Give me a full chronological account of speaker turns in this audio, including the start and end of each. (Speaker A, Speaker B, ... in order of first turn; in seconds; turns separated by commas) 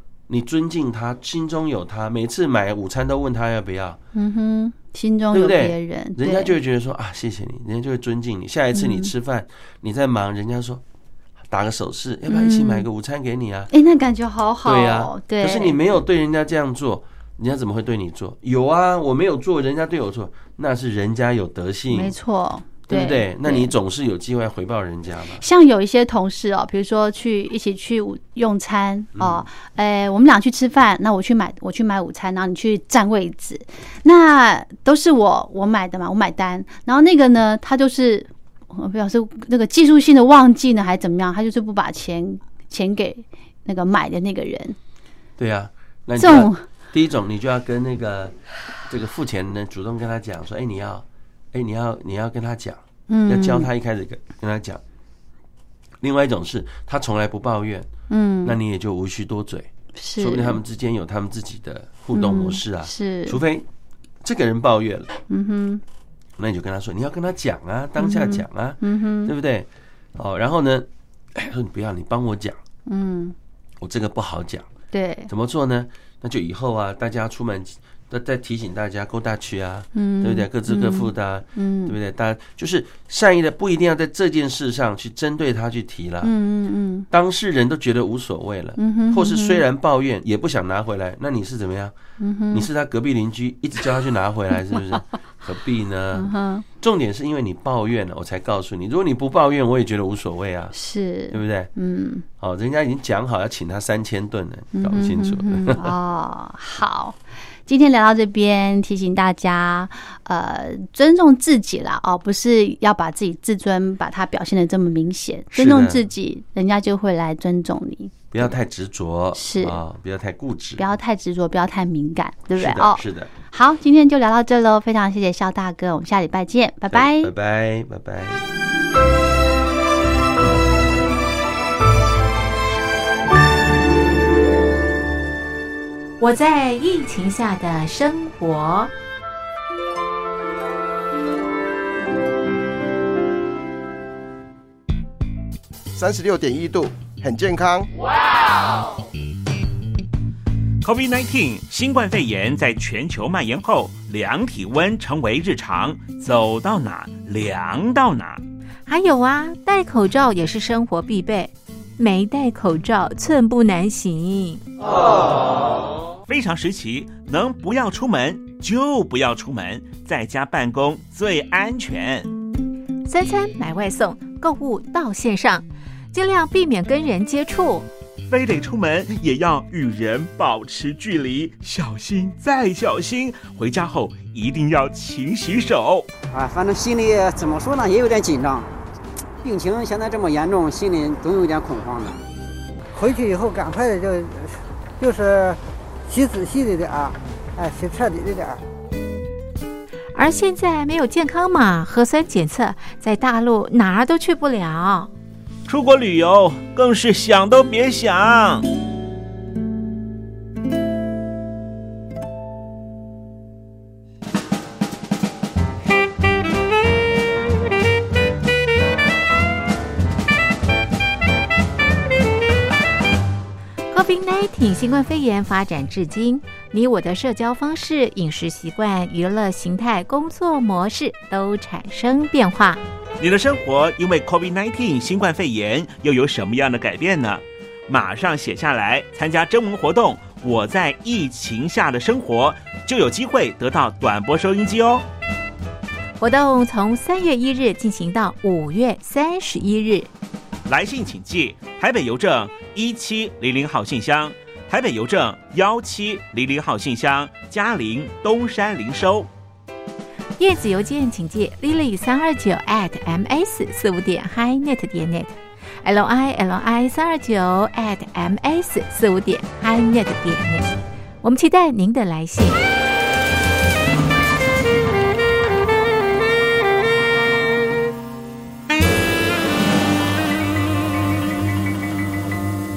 Speaker A: 0.3-4.0, Speaker B: 4.2-6.6, Speaker A: 5.3-10.8, Speaker B: 8.7-9.1, Speaker A: 11.5-13.7, Speaker B: 12.3-12.9, Speaker B: 13.7-15.8, Speaker A: 14.6-22.2, Speaker B: 21.9-23.7, Speaker A: 22.9-25.4, Speaker B: 25.4-44.8, Speaker A: 29.2-29.4, Speaker A: 45.4-48.4, Speaker B: 46.2-46.6, Speaker A: 48.9-54.8, Speaker B: 53.1-53.7, Speaker A: 56.0-57.9, Speaker B: 58.1-58.6, Speaker A: 58.4-63.7, Speaker B: 60.0-60.6, Speaker B: 62.1-63.4, Speaker A: 64.2-65.1, Speaker B: 65.3-65.8, Speaker A: 66.4-72.6, Speaker B: 68.0-69.3, Speaker B: 72.9-73.3, Speaker A: 73.8-74.7, Speaker B: 74.9-75.3, Speaker A: 75.3-86.3, Speaker B: 80.0-82.0, Speaker B: 86.2-87.1, Speaker A: 87.1-92.0, Speaker B: 88.8-89.7, Speaker B: 92.2-92.7, Speaker A: 92.5-100.8, Speaker B: 96.1-96.7, Speaker B: 100.7-102.2, Speaker A: 101.3-101.7, Speaker A: 102.4-106.0, Speaker B: 104.7-118.5, Speaker A: 115.5-116.0, Speaker A: 118.3-120.9, Speaker B: 119.3-119.8, Speaker B: 120.8-127.3, Speaker A: 122.6-123.3, Speaker A: 126.9-128.4, Speaker C: 136.2-138.9, Speaker D: 145.9-147.9, Speaker E: 150.8-158.4, Speaker C: 158.9-164.7, Speaker E: 166.3-172.3, Speaker C: 173.1-177.9, Speaker E: 178.3-186.1, Speaker F: 186.3-188.7, Speaker F: 189.4-192.2, Speaker G: 192.9-198.6, Speaker C: 200.1-205.1, Speaker E: 205.7-208.7, Speaker C: 223.9-232.8, Speaker E: 233.2-245.1, Speaker C: 246.2-250.1, Speaker E: 250.7-259.3, Speaker C: 260.4-272.6